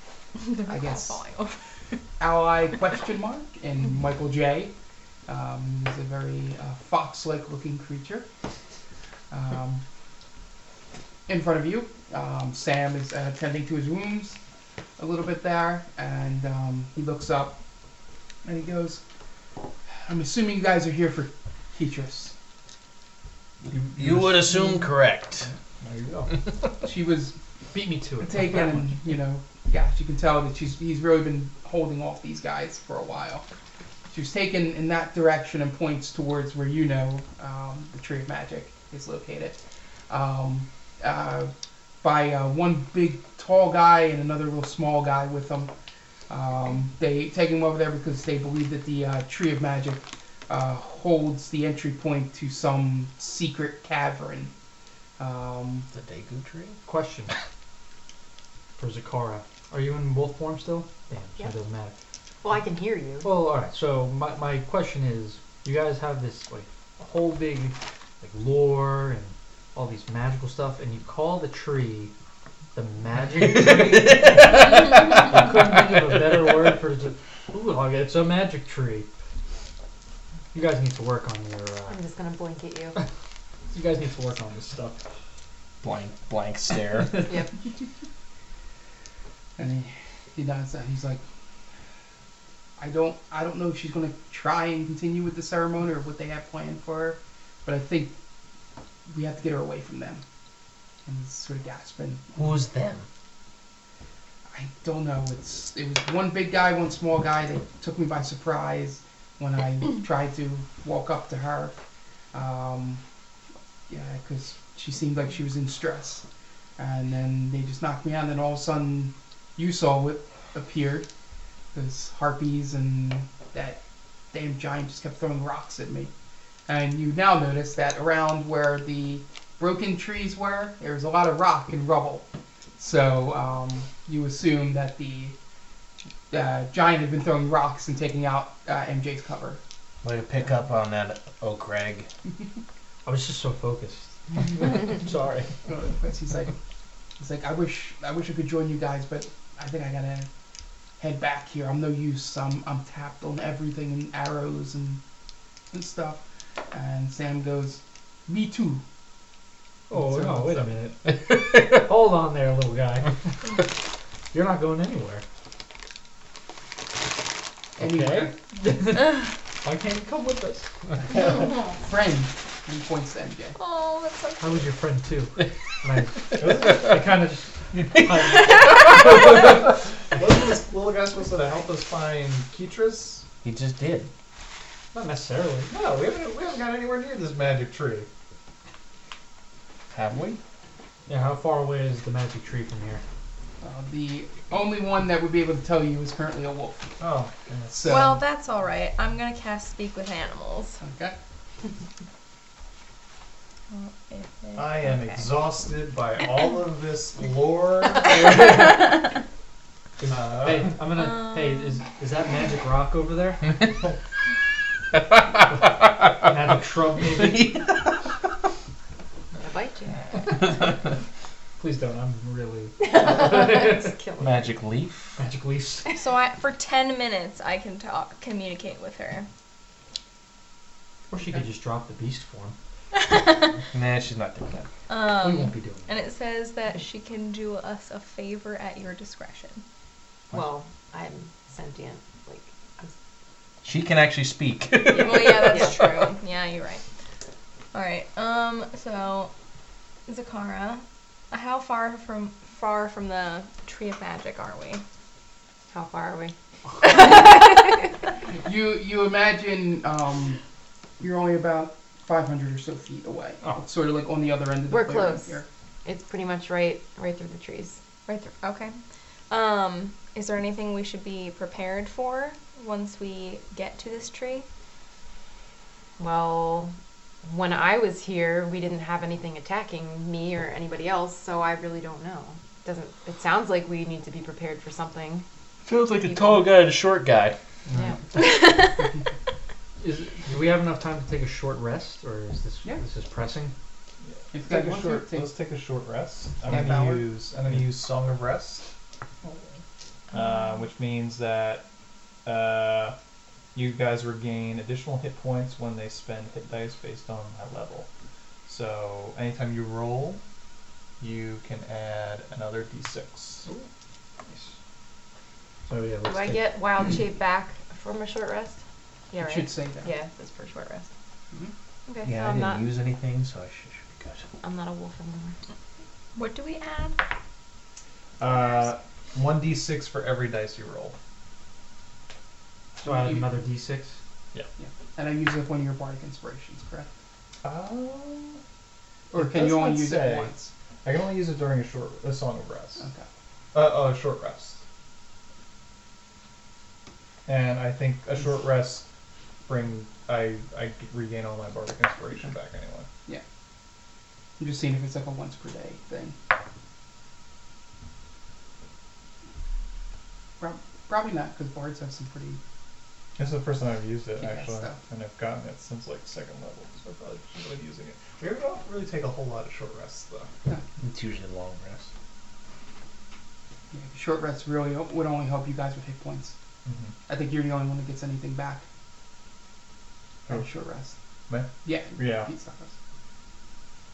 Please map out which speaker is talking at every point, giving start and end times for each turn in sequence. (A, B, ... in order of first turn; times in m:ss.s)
0:00.4-0:01.6 A
0:00.6-0:01.2 B
0:02.2-0:04.7 B
0:05.3-0:08.2 B
0:09.3-0:09.8 B
0:11.3-0:14.4 B
0:15.0-0:17.6 B
0:18.4-0:19.0 B
0:20.0-0:22.3 B
0:23.7-0:24.9 C
0:24.0-0:25.5 D
0:25.4-0:26.3 C
0:26.8-0:27.4 B
0:27.7-0:29.0 C
0:28.2-0:33.4 B
0:34.1-0:39.6 B
0:40.1-0:41.5 B
0:42.0-0:45.7 B
0:46.3-0:54.5 B
0:55.2-0:55.9 B
0:55.9-0:56.8 D
0:56.8-0:57.3 C
0:58.8-1:01.9 C
1:02.4-1:03.3 E
1:03.2-1:12.1 C
1:12.7-1:19.1 C
1:13.5-1:14.8 D
1:20.5-1:22.0 C
1:21.9-1:23.0 E
1:23.7-1:25.0 C
1:25.8-1:27.3 D
1:29.6-1:31.2 B
1:32.8-1:38.1 B
1:39.1-1:40.2 B
1:41.0-1:42.6 B
1:42.3-1:43.0 D
1:44.5-1:51.8 B
1:52.3-1:53.0 B
1:53.9-1:56.2 B
1:56.8-2:01.1 B
2:01.7-2:03.8 B
2:04.3-2:06.1 B
2:06.7-2:12.2 B
2:12.8-2:15.4 B
2:16.3-2:19.6 B
2:20.0-2:22.1 D
2:23.0-2:25.5 C
2:25.6-2:26.5 B
2:27.2-2:30.3 B
2:31.0-2:35.0 B
2:35.7-2:38.8 B
2:39.9-2:43.3 C
2:39.9-2:40.8 B
2:44.3-2:45.2 C
2:47.8-2:48.4 B
2:47.8-2:50.7 C
2:51.0-2:53.6 B
2:53.6-2:54.6 A
2:54.4-2:59.4 C
2:56.3-2:56.9 D
2:56.4-2:56.9 F
3:00.1-3:03.2 F
3:03.4-3:04.1 D
3:04.9-3:05.7 C
3:05.7-3:08.1 F
3:09.9-3:10.4 D
3:11.1-3:13.0 C
3:13.6-3:16.9 B
3:17.0-3:18.0 F
3:17.7-3:18.2 B
3:17.8-3:20.8 A
3:20.8-3:21.2 B
3:23.7-3:25.3 A
3:24.5-3:28.4 F
3:30.0-3:33.6 C
3:30.0-3:30.8 F
3:31.0-3:31.8 A
3:35.5-3:37.5 C
3:37.2-3:37.8 D
3:39.4-3:40.3 E
3:41.6-3:44.0 C
3:42.8-3:44.6 E
3:44.2-3:45.2 D
3:45.2-3:45.8 C
3:45.9-3:49.3 A
3:51.1-3:52.6 C
3:52.9-3:53.6 A
3:53.7-3:54.7 D
3:54.9-3:59.6 A
3:55.2-3:56.0 C
4:00.3-4:02.9 E
4:03.6-4:06.1 D
4:04.9-4:05.7 E
4:04.9-4:06.8 A
4:07.7-4:09.3 A
4:10.1-4:14.8 A
4:15.7-4:16.3 E
4:16.8-4:17.9 A
4:18.4-4:20.4 B
4:21.0-4:25.5 B
4:24.7-4:27.8 E
4:28.1-4:28.8 A
4:29.3-4:34.4 A
4:36.0-4:45.2 E
4:45.6-4:47.4 D
4:45.8-4:46.5 E
4:48.1-4:48.8 A
4:49.8-4:53.5 C
4:54.1-4:58.7 F
4:54.3-4:55.3 B
4:56.5-4:57.6 C
5:00.1-5:00.6 A
5:00.1-5:01.6 F
5:02.2-5:03.0 F
5:03.5-5:07.9 F
5:08.5-5:10.2 F
5:11.0-5:13.4 F
5:15.7-5:16.5 C
5:16.0-5:18.6 E
5:19.1-5:20.9 E
5:19.2-5:19.9 B
5:21.9-5:22.2 A
5:22.0-5:24.3 D
5:22.1-5:22.8 E
5:24.4-5:25.4 E
5:26.1-5:27.0 A
5:28.2-5:30.9 F
5:32.8-5:33.3 B
5:32.8-5:34.0 C
5:34.6-5:36.9 B
5:37.4-5:38.4 F
5:39.1-5:40.5 B
5:39.1-5:40.3 F
5:40.8-5:42.8 F
5:42.8-5:43.0 B
5:43.5-5:44.6 F
5:47.2-5:48.8 F
5:49.4-5:52.9 F
5:54.4-5:56.2 B
6:00.4-6:02.4 B
6:03.2-6:10.3 F
6:04.2-6:04.8 B
6:10.8-6:11.9 D
6:13.7-6:16.3 B
6:16.6-6:16.9 F
6:17.1-6:18.6 B
6:20.3-6:21.0 B
6:21.3-6:22.3 F
6:21.6-6:22.7 B